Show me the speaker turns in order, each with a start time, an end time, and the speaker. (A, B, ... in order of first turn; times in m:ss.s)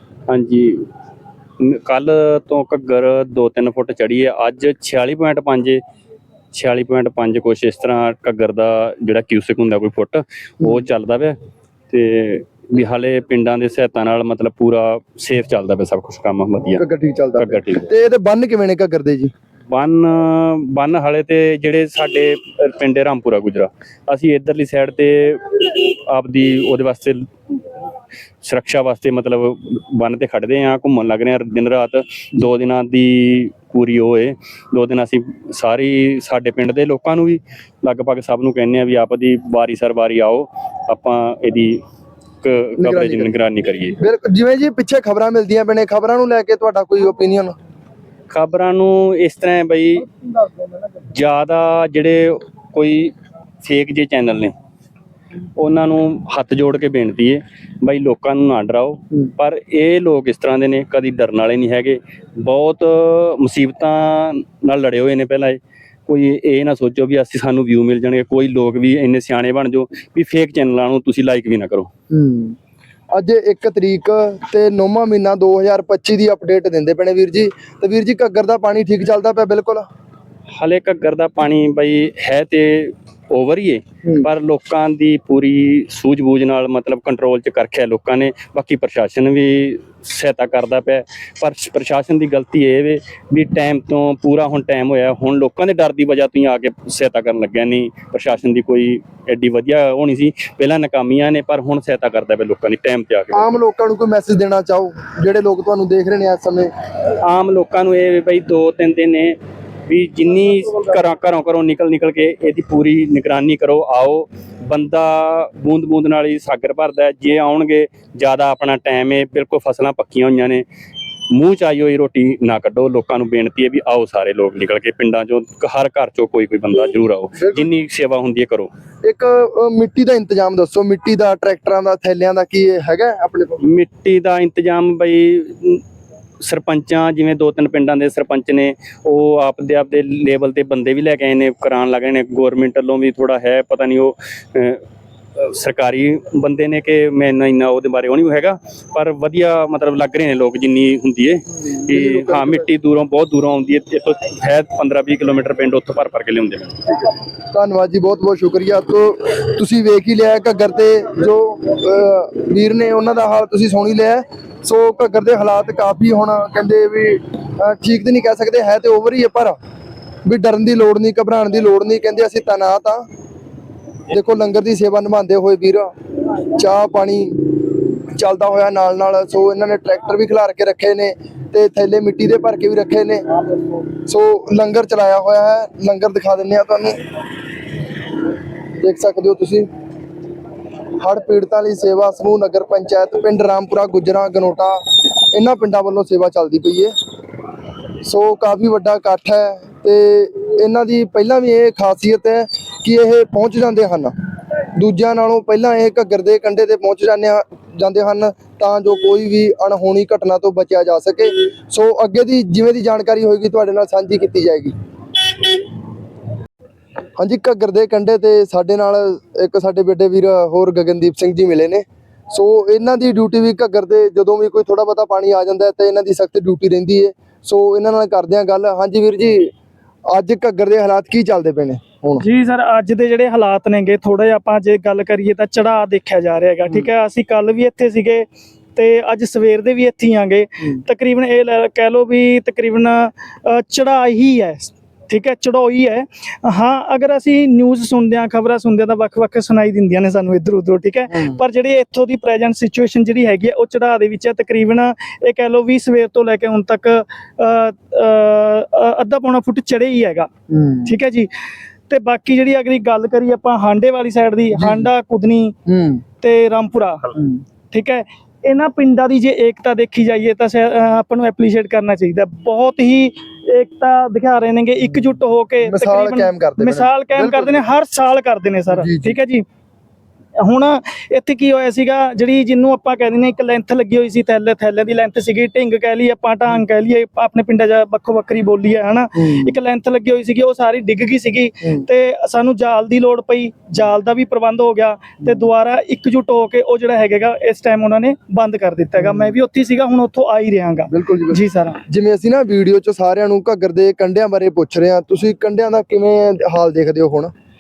0:00.3-0:00.9 A
0:01.6-0:05.8 A
0:06.5-0:11.4 A
0:11.9-0:16.8 A
0:16.8-0:19.3 B
0:17.4-0:17.9 A
0:19.7-0:27.3 A
0:28.4-0:41.8 A
0:42.4-0:44.0 A
0:42.8-0:43.3 B
0:44.0-0:47.5 B
0:48.3-0:50.0 A
0:50.1-0:50.7 B
0:51.1-0:54.5 A
0:55.6-1:11.9 A
1:12.1-1:12.6 B
1:13.1-1:19.8 B
1:20.5-1:43.5 A
1:43.3-1:46.7 B
1:47.2-2:00.6 A
2:01.3-2:08.7 A
2:07.4-2:07.7 B
2:09.0-2:13.6 B
2:13.6-2:15.8 A
2:16.4-2:24.8 A
2:25.4-2:36.8 A
2:31.6-2:32.6 B
2:37.5-2:49.6 B
2:50.2-2:53.0 B
2:54.1-2:55.9 B
2:56.6-2:57.6 B
2:58.1-3:03.2 B
3:04.0-3:07.0 B
3:08.8-3:09.7 B
3:11.0-3:14.8 B
3:15.3-3:16.9 B
3:18.0-3:24.1 B
3:24.8-3:34.7 B
3:37.2-3:49.5 B
3:50.1-3:52.2 B
3:52.3-4:20.3 C
4:11.1-4:11.4 B
4:20.5-4:21.0 B
4:20.9-4:21.3 C
4:21.9-4:25.5 C
4:24.5-4:24.9 B
4:25.6-4:26.0 B
4:26.2-4:27.1 C
4:27.1-4:27.4 B
4:27.7-4:39.4 C
4:34.8-4:37.6 B
4:38.7-4:39.2 B
4:40.4-5:01.8 C
4:49.2-4:49.6 B
4:59.0-4:59.3 B
5:00.9-5:07.3 B